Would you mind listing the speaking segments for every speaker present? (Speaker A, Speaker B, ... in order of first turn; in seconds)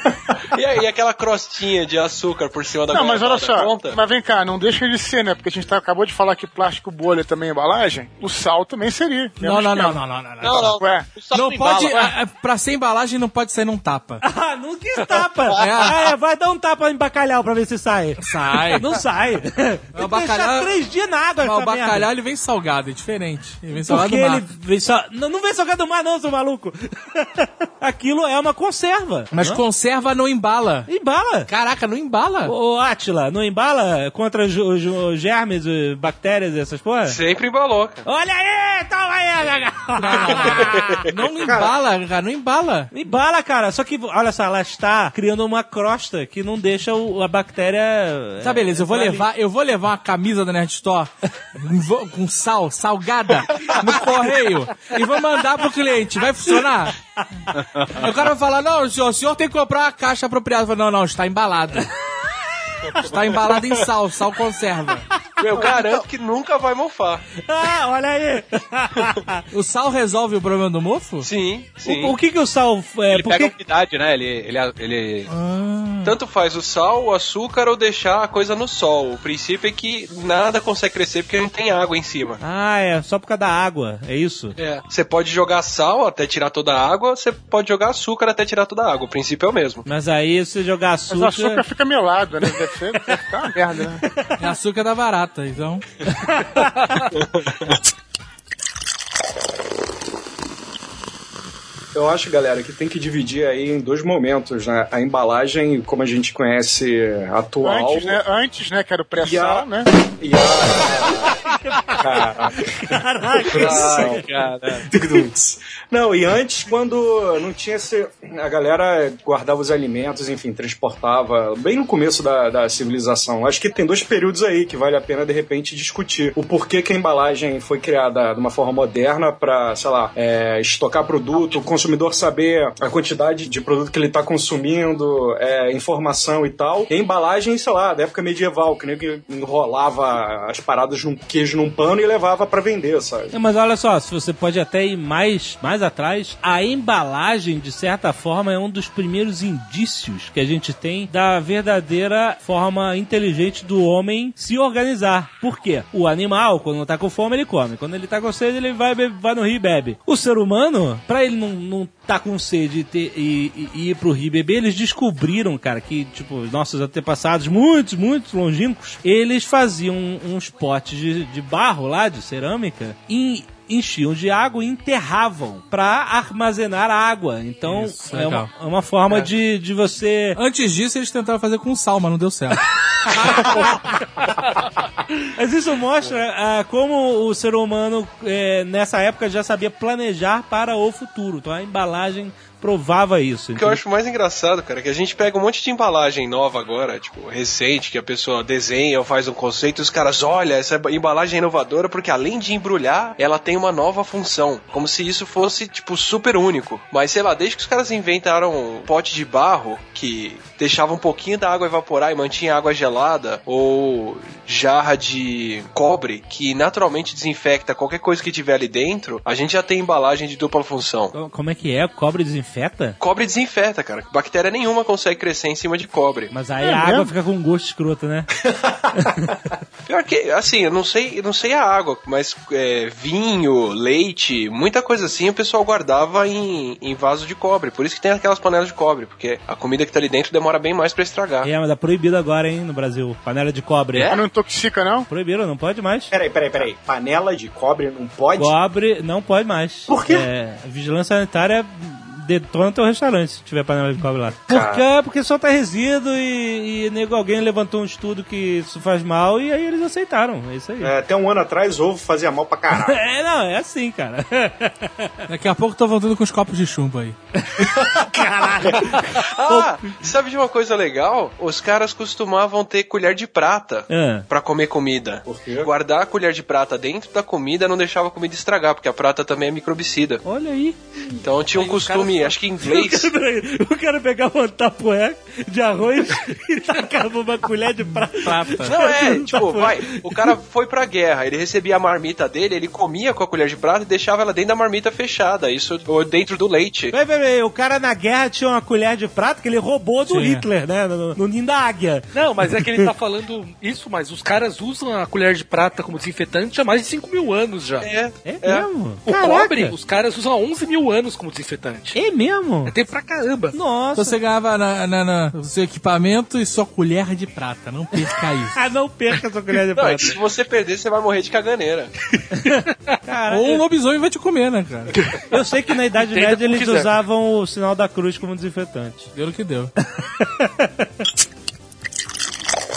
Speaker A: 0.5-4.0, 37.1-38.0, 65.4-67.3, 71.2-72.2, 76.0-82.4, 84.6-89.9, 193.6-221.2, 223.0-226.3, 229.8-241.5, 269.1-280.2, 281.2-283.1, 288.6-296.9, 307.8-308.7, 319.7-321.9
Speaker B: 2.9-10.0, 10.7-11.1, 91.1-94.0, 107.6-109.9, 226.6-227.1, 244.1-245.1
Speaker C: 9.4-10.8, 11.3-14.2, 15.5-16.0, 18.2-18.9, 19.9-20.7, 21.4-24.5, 29.3-30.9, 31.5-32.5, 40.0-42.9, 48.4-57.0, 57.8-61.9, 62.9-65.1, 69.5-71.3, 75.3-76.2, 94.4-95.8, 177.7-178.5, 180.4-183.6, 265.3-267.2, 287.9-288.8, 300.1-300.4, 313.9-318.6, 323.3-325.0, 329.1-329.7
Speaker D: 10.4-12.1, 73.1-75.3, 113.5-114.9
Speaker E: 14.2-22.1, 23.8-29.6, 30.9-31.5, 32.5-37.2, 38.0-41.0, 42.9-49.3, 67.4-69.4, 71.8-73.5, 82.4-84.6, 89.9-91.6, 94.0-94.4, 96.2-96.6, 111.3-114.3, 143.3-180.4, 183.5-183.7, 185.3-193.8, 221.1-223.0, 226.3-228.3, 228.9-229.3, 241.4-244.2, 245.1-246.1, 248.4-260.9, 262.7-265.2, 267.6-269.8, 273.9-274.3, 280.2-281.1, 282.6-290.2, 296.9-302.9, 308.2-309.7, 312.0-312.7, 313.5-314.2, 318.5-320.2, 322.4-323.6, 325.3-329.1, 330.0-331.1
Speaker F: 101.9-108.2, 109.2-111.4, 112.0-112.8, 113.5-114.2, 114.8-143.3, 228.4-228.9, 246.1-248.5, 249.9-250.3, 254.5-254.8, 260.8-263.0, 275.3-275.7
Speaker G: 302.1-307.9, 309.1-312.0, 312.7-313.6, 326.3-326.7